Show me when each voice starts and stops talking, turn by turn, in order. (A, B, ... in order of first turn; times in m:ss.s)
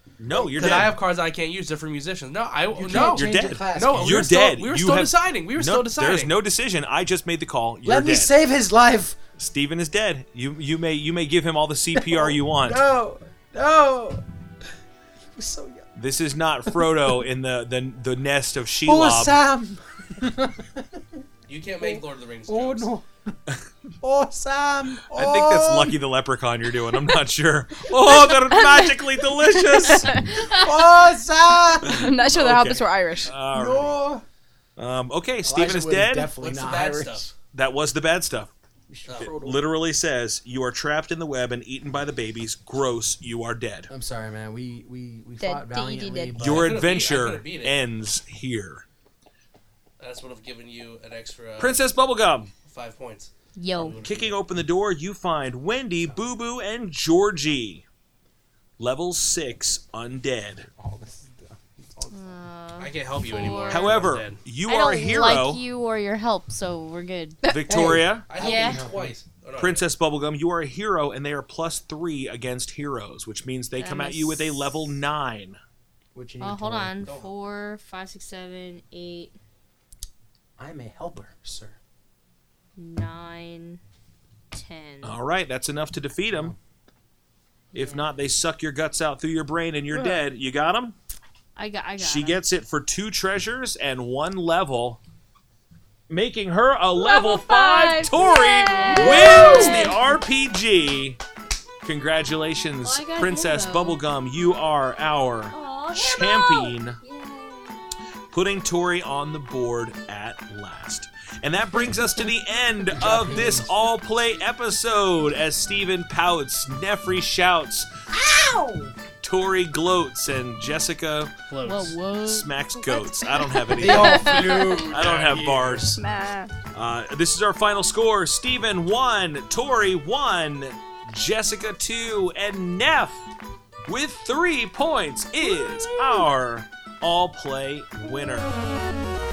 0:00.2-0:00.9 A
0:00.3-0:00.9 B
0:00.6-0:06.3 C
0:02.7-0:04.3 B
0:02.9-0:08.3 A
0:07.8-0:09.2 B
0:09.4-0:12.8 A
0:11.9-0:14.2 B
0:15.3-0:15.8 B
0:16.0-0:19.4 A
0:18.8-0:21.2 B
0:21.5-0:22.9 C
0:21.8-0:23.1 B
0:24.0-0:26.0 B
0:25.1-0:30.2 A
0:28.0-0:30.3 D
0:30.2-0:32.1 B
0:30.3-0:30.7 E
0:31.8-0:33.3 D
0:31.8-0:34.0 A
0:33.5-0:34.2 B
0:34.8-0:36.3 A
0:35.4-0:37.3 B
0:36.4-0:37.3 C
0:37.5-0:38.5 A
0:38.9-0:39.7 B
0:39.2-0:43.9 A
0:43.9-0:46.8 B
0:45.4-0:46.4 D
0:46.3-0:48.8 A
0:46.4-0:47.8 C
0:50.0-0:51.8 C
0:51.6-0:52.5 A
0:52.6-0:54.4 C
0:53.6-0:54.0 E
0:54.0-0:57.8 A
0:58.8-1:00.7 A
1:00.7-1:02.4 B
1:02.1-1:04.1 E
1:02.8-1:04.4 C
1:03.7-1:05.6 A
1:04.6-1:07.6 E
1:07.4-1:08.3 A
1:07.6-1:09.1 B
1:08.3-1:09.8 C
1:08.4-1:08.9 E
1:09.6-1:15.6 A
1:13.8-1:14.7 E
1:16.1-1:17.0 B
1:16.4-1:19.4 E
1:17.0-1:17.3 C
1:20.6-1:21.8 B
1:22.8-1:23.8 E
1:24.5-1:25.2 E
1:25.0-1:26.5 A
1:26.3-1:26.6 B
1:27.7-1:28.0 E
1:27.7-1:31.0 A
1:31.6-1:32.4 E
1:32.0-1:35.0 A
1:36.1-1:41.2 A
1:37.0-1:40.0 D
1:38.6-1:40.0 E
1:41.8-1:47.0 A
1:42.8-1:44.0 E
1:45.5-1:47.7 E
1:48.3-1:57.9 A
1:52.9-1:53.8 B
1:58.1-1:59.0 B
1:59.2-2:01.3 A
2:01.5-2:02.0 C
2:01.6-2:03.5 E
2:02.2-2:06.0 A
2:03.6-2:04.7 D
2:03.7-2:05.1 B
2:04.6-2:05.8 C
2:06.0-2:06.5 D
2:06.7-2:13.3 A
2:13.8-2:18.6 A
2:15.5-2:16.2 D